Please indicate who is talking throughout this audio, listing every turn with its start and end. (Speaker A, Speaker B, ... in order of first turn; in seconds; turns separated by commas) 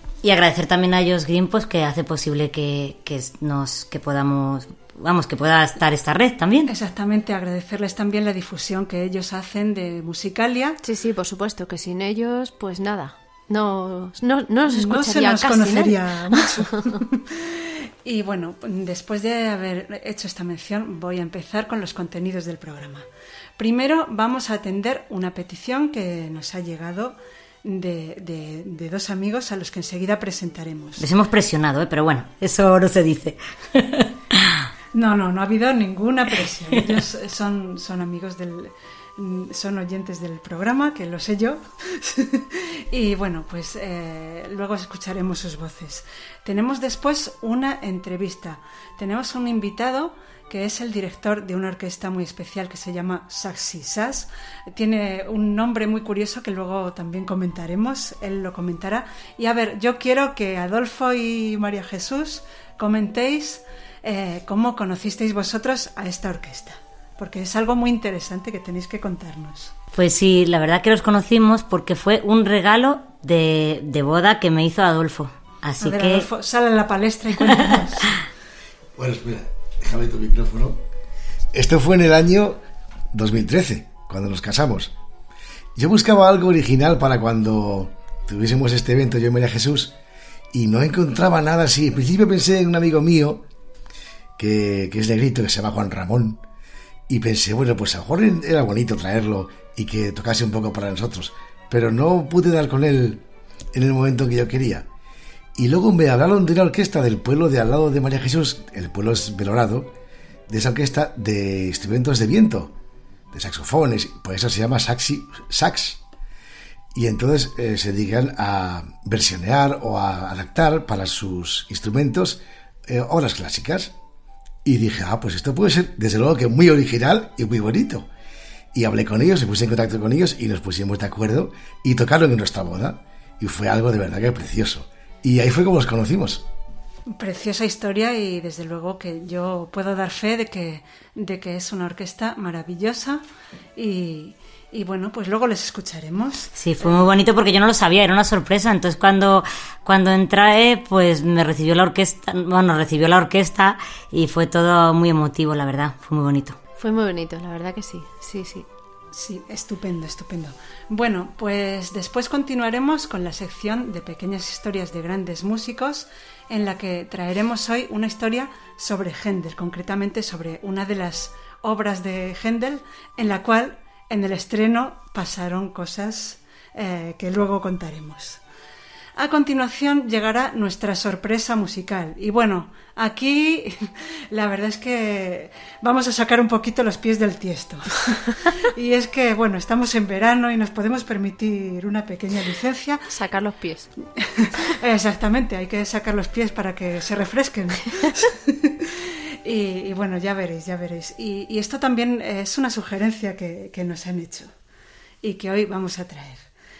Speaker A: 0.2-6.7, Speaker B: 6.7-10.8, Speaker C: 10.8-16.9, Speaker B: 14.7-23.1, Speaker B: 23.6-31.0, Speaker A: 31.0-34.5, Speaker B: 34.9-69.7, Speaker A: 69.9-76.3, Speaker B: 75.8-78.2, Speaker D: 79.0-80.8, Speaker D: 81.5-82.6, Speaker D: 83.1-84.9, Speaker D: 85.8-89.9, Speaker D: 90.5-93.4, Speaker D: 94.4-96.4, Speaker D: 97.1-103.2, Speaker D: 103.7-104.9, Speaker D: 105.6-109.9, Speaker D: 110.5-112.7, Speaker D: 113.3-116.0, Speaker D: 116.9-123.9, Speaker D: 124.7-128.1, Speaker D: 128.7-136.4, Speaker B: 137.1-143.2, Speaker B: 143.8-146.5, Speaker A: 146.6-156.6, Speaker C: 156.8-158.7, Speaker B: 159.1-178.4, Speaker B: 179.2-193.1, Speaker C: 193.1-193.9, Speaker B: 194.2-204.5, Speaker B: 205.2-206.5